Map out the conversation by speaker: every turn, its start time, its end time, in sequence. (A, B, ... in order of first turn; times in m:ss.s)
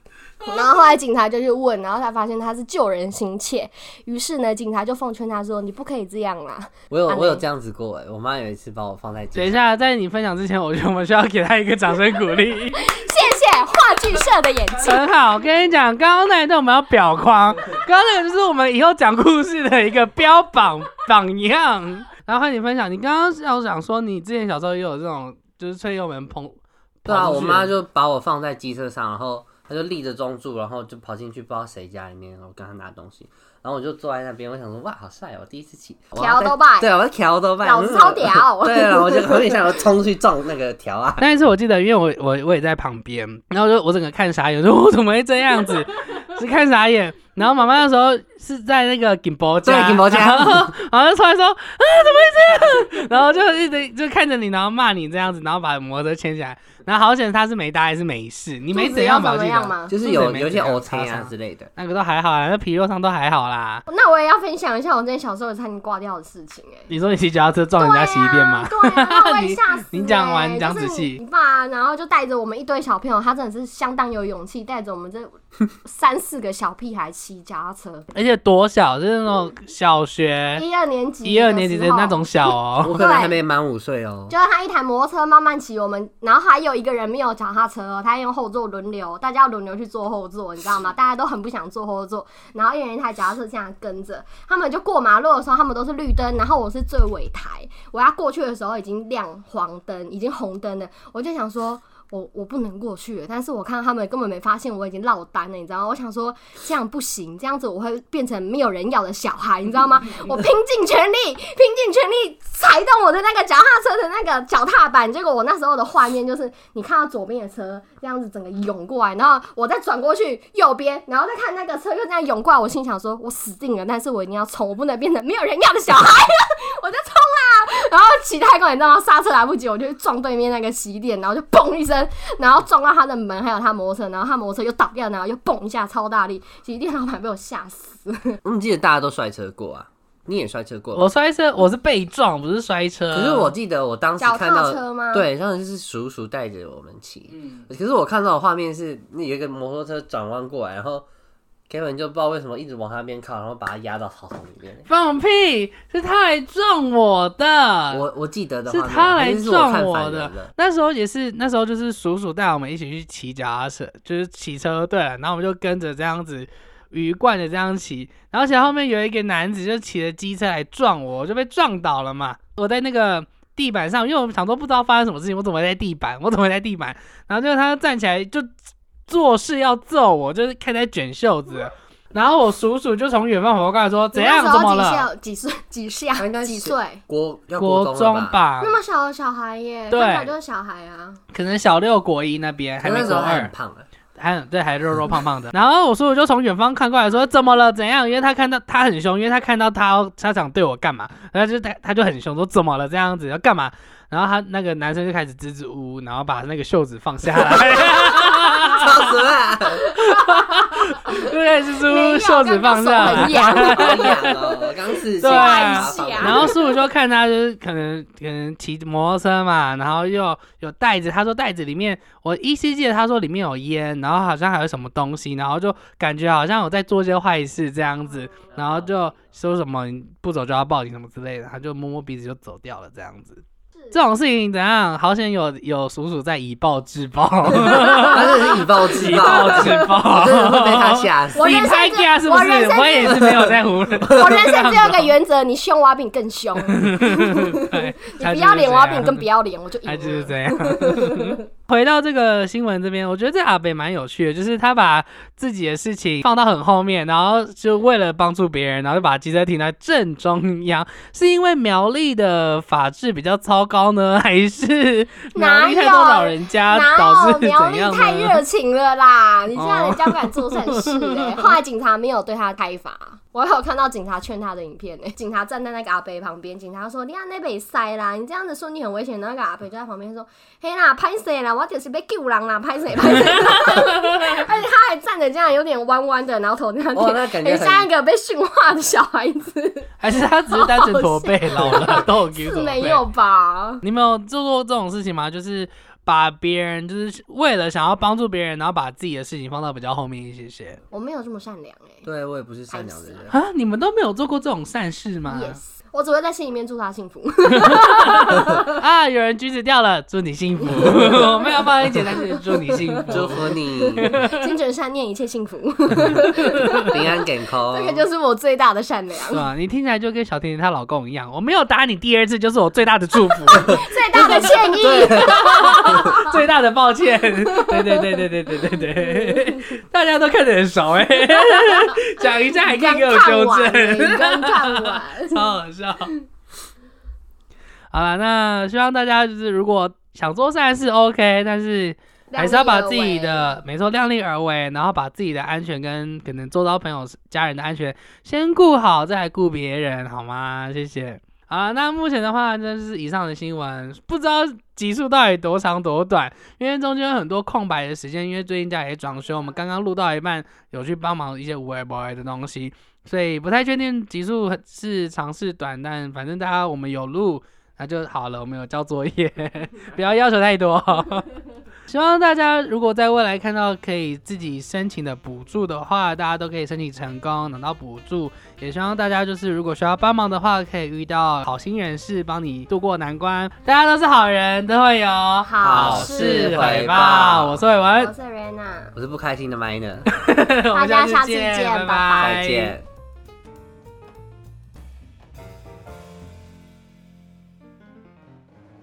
0:00.4-0:07.4 A
0:06.9-0:09.6 B
0:09.3-0:12.8 C
0:12.7-0:15.0 A
0:14.8-0:27.7 C
0:27.1-0:41.2 B
0:36.2-0:36.9 A
0:37.6-0:39.5 A
0:41.2-1:03.8 C
0:49.6-0:50.7 B
0:58.7-0:59.9 A
0:59.9-1:01.7 B
1:03.9-1:06.9 A
1:06.9-1:11.2 C
1:07.8-1:18.0 A
1:18.1-1:20.6 C
1:20.5-1:23.4 A
1:21.2-1:23.0 C
1:22.8-1:24.3 B
1:24.3-2:18.4 A
2:18.4-2:21.1 B
2:20.9-2:23.5 C
2:23.1-2:31.0 B
2:24.2-2:25.3 A
2:31.7-2:34.8 B
2:34.9-2:38.0 C
2:37.9-2:40.5 B
2:38.7-2:58.5 C
2:59.1-3:05.1 C
3:04.1-3:07.0 A
3:06.2-3:08.4 B
3:07.6-3:08.8 C
3:08.6-3:11.2 A
3:09.9-3:10.3 C
3:11.3-3:13.5 C
3:12.8-3:13.8 B
3:14.2-3:29.0 C
3:28.7-3:29.8 B
3:29.9-3:31.2 A
3:30.0-3:34.6 C
3:31.8-3:34.3 A
3:33.1-3:36.6 B
3:35.2-4:05.1 C
3:35.2-3:36.7 A
3:57.7-4:00.0 A
3:58.0-4:01.6 B
4:01.4-4:03.5 A
4:03.0-4:04.2 B
4:04.1-4:11.4 A
4:06.6-4:09.2 C
4:09.8-4:28.4 C
4:25.3-4:49.9 A
4:29.5-4:31.5 C
4:43.3-4:43.8 C
4:46.9-4:47.9 B
4:50.0-4:53.0 C
4:50.5-4:53.8 A
4:53.8-5:00.8 C
5:00.9-5:02.0 A
5:02.0-5:03.4 B
5:02.7-5:03.3 A
5:03.3-5:05.6 C
5:05.2-5:08.6 A
5:07.5-5:14.5 C
5:10.7-5:13.0 A
5:13.1-5:14.1 B
5:14.3-5:19.5 A
5:16.8-5:18.0 B
5:19.3-5:36.1 C
5:23.5-5:26.4 A
5:24.8-5:25.4 B
5:27.4-5:28.2 A
5:32.2-5:35.4 A
5:37.9-6:11.3 C
5:42.3-5:43.6 A
6:11.9-6:28.1 C
6:25.4-6:26.7 A
6:25.6-6:27.6 B
6:27.9-6:28.9 A
6:29.0-6:30.1 B
6:30.1-6:32.8 C
6:30.7-6:32.4 A
6:32.2-6:32.8 B